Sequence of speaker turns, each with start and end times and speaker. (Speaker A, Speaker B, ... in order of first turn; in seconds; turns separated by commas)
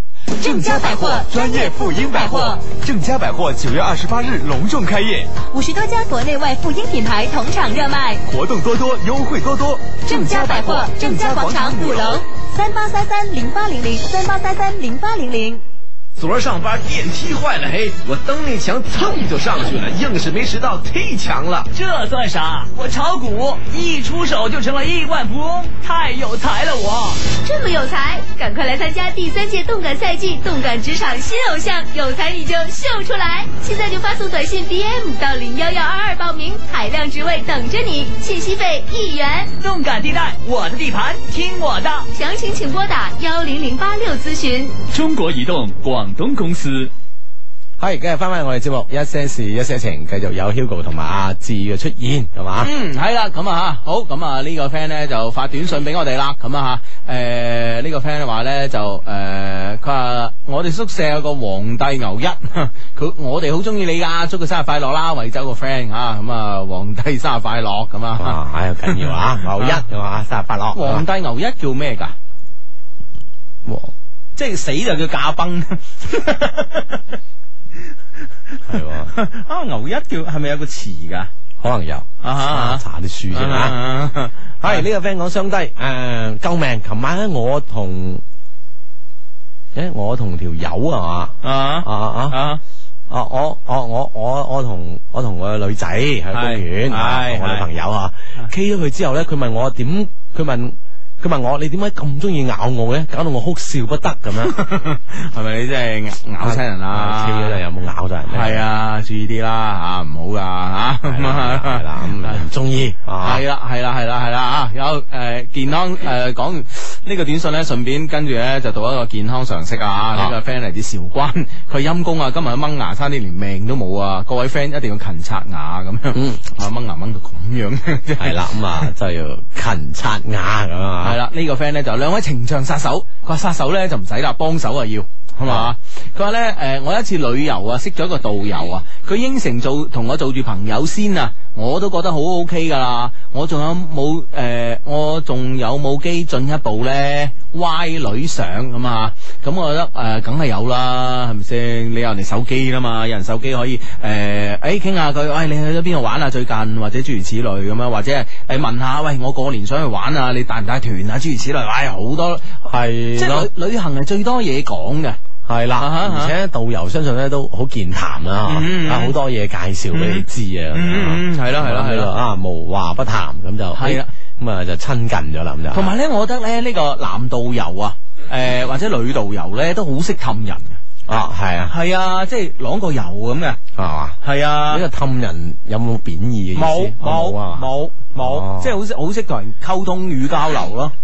Speaker A: 0.4-1.4, Speaker B: 0.4-2.4, Speaker C: 0.4-5.3, Speaker A: 2.0-2.5, Speaker A: 5.5-8.2, Speaker C: 8.2-12.2, Speaker A: 10.1-15.6, Speaker C: 16.2-21.7, Speaker D: 21.7-27.2, Speaker B: 27.4-39.5, Speaker D: 39.6-42.0, Speaker B: 42.1-44.8, Speaker D: 44.9-46.9, Speaker E: 47.8-52.7, Speaker F: 52.6-69.8, Speaker E: 68.2-71.0, Speaker F: 70.7-72.1, Speaker E: 73.6-73.9, Speaker F: 74.3-77.0, Speaker E: 78.7-79.1, Speaker F: 79.1-81.3, Speaker E: 81.6-83.8, Speaker F: 82.2-84.9, Speaker E: 84.6-88.2, Speaker E: 89.7-92.4, Speaker F: 91.4-92.6, Speaker E: 93.1-104.6, Speaker F: 96.3-97.7, Speaker F: 104.4-107.6, Speaker E: 106.4-108.6, Speaker F: 108.3-112.5, Speaker E: 111.1-113.4, Speaker F: 113.2-128.4, Speaker E: 126.1-126.4, Speaker E: 128.2-131.2, Speaker F: 131.0-162.6, Speaker E: 135.4-135.7, Speaker E: 162.7-163.5, Speaker F: 163.1-165.2, Speaker E: 165.4-175.9, Speaker F: 165.8-166.3, Speaker F: 168.4-169.1, Speaker F: 169.9-172.1, Speaker F: 173.7-174.1, Speaker F: 175.7-180.8, Speaker E: 181.1-181.7, Speaker F: 181.7-183.6, Speaker E: 183.8-188.8, Speaker F: 184.2-184.8, Speaker F: 186.5-190.9